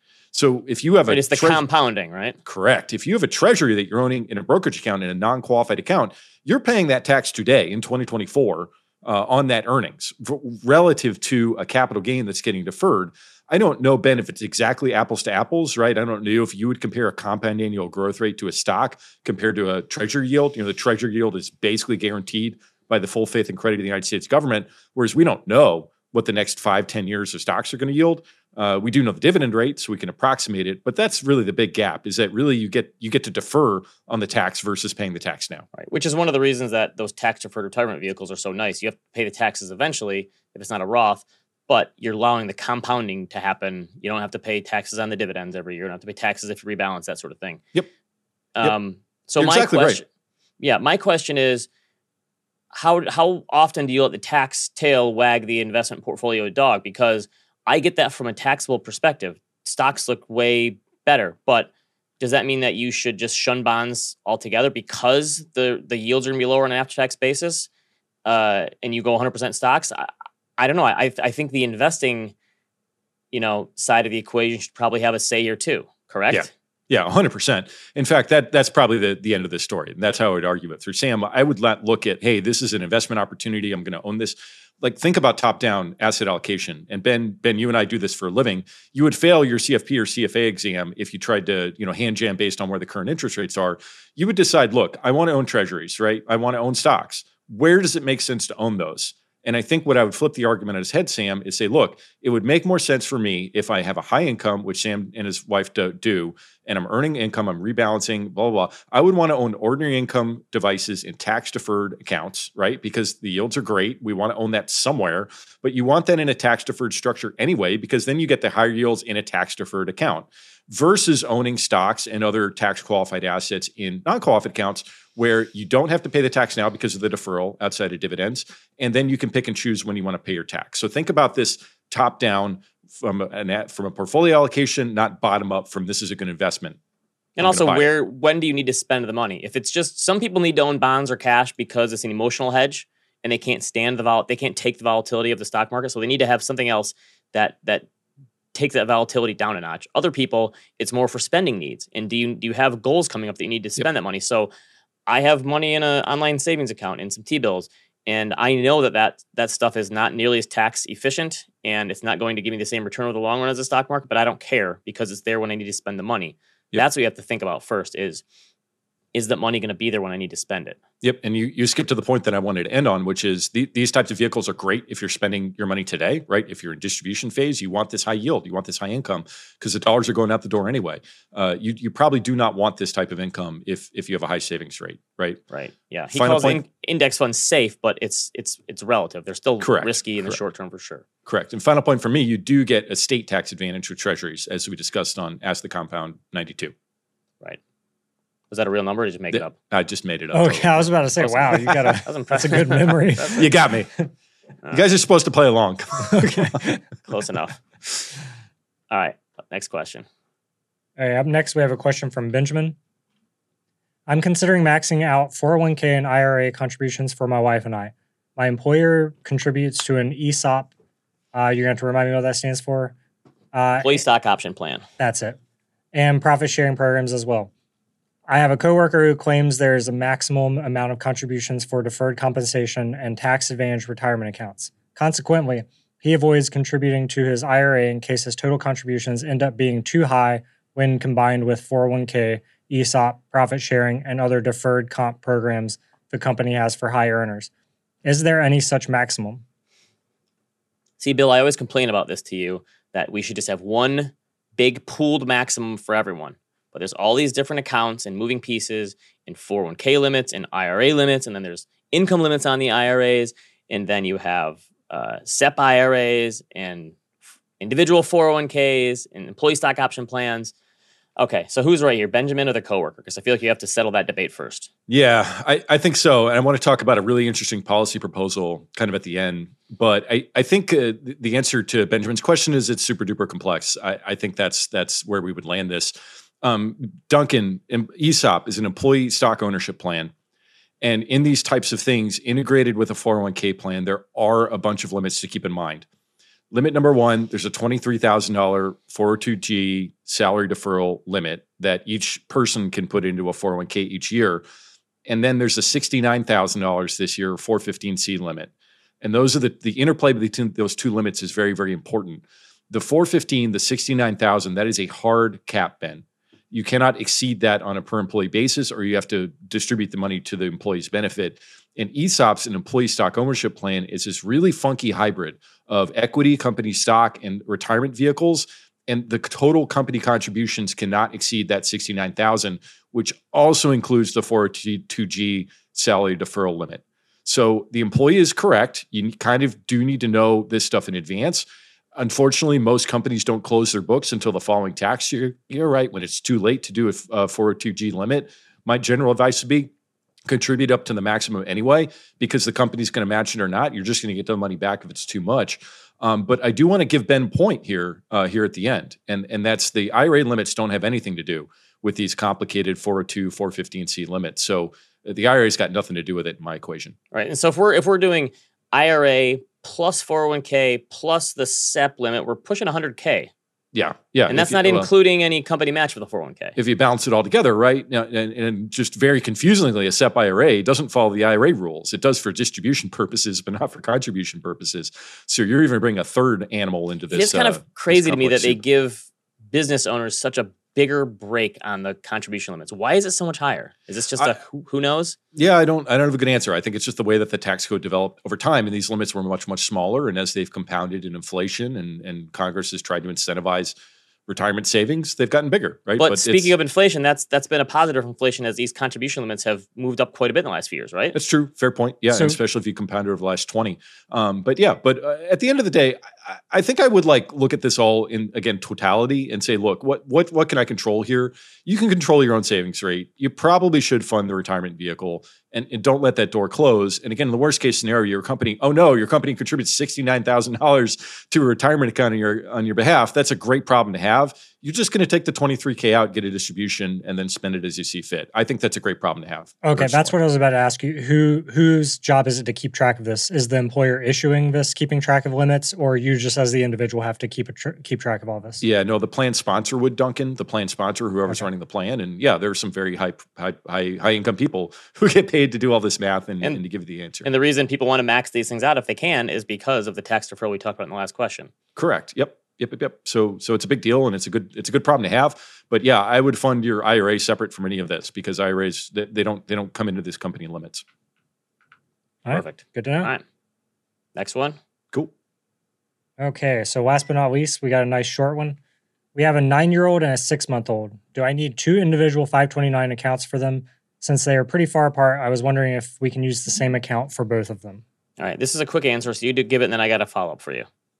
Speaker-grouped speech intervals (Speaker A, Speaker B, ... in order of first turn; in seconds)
Speaker A: 0.3-1.6, 2.4-35.7, 49.4-50.0, 76.3-136.8, 137.4-137.9, 171.0-185.4, 186.1-186.6, 189.6-190.4, 191.2-196.7, 199.3-201.6, 203.3-204.0, 204.7-206.8, 274.9-290.1, 290.8-295.9, 296.5-304.4, 305.1-308.5, 309.0-341.4, 341.9-349.7, 350.2-366.9, 373.7-374.9, 376.6-388.6, 395.3-403.7, 404.3-406.5, 411.1-440.1, 448.6-457.3, 461.8-470.8
Speaker B: 1.1-2.4, 35.8-47.6, 48.5-50.0, 50.6-51.7, 52.7-67.7, 68.2-72.3, 73.3-76.5, 137.4-147.9, 148.5-154.5, 155.1-168.2, 169.1-170.8, 185.5-191.0, 198.5-199.5, 201.2-203.5, 207.0-207.6, 208.9-210.0, 223.8-224.8, 251.0-266.9, 267.6-270.5, 271.2-274.7, 367.1-373.3, 374.3-376.6, 387.1-395.1, 406.0-411.1, 457.2-461.5, 472.3-473.2, 474.1-474.6, 488.2-490.7
Speaker C: 200.3-203.5, 206.1-206.4, 211.0-212.8, 214.1-220.7, 221.3-222.9, 223.5-224.0, 225.0-225.4, 225.9-227.5, 228.3-247.5, 248.0-249.4, 412.1-412.4, 439.6-448.6, 472.2-473.1, 476.2-478.6, 479.1-487.8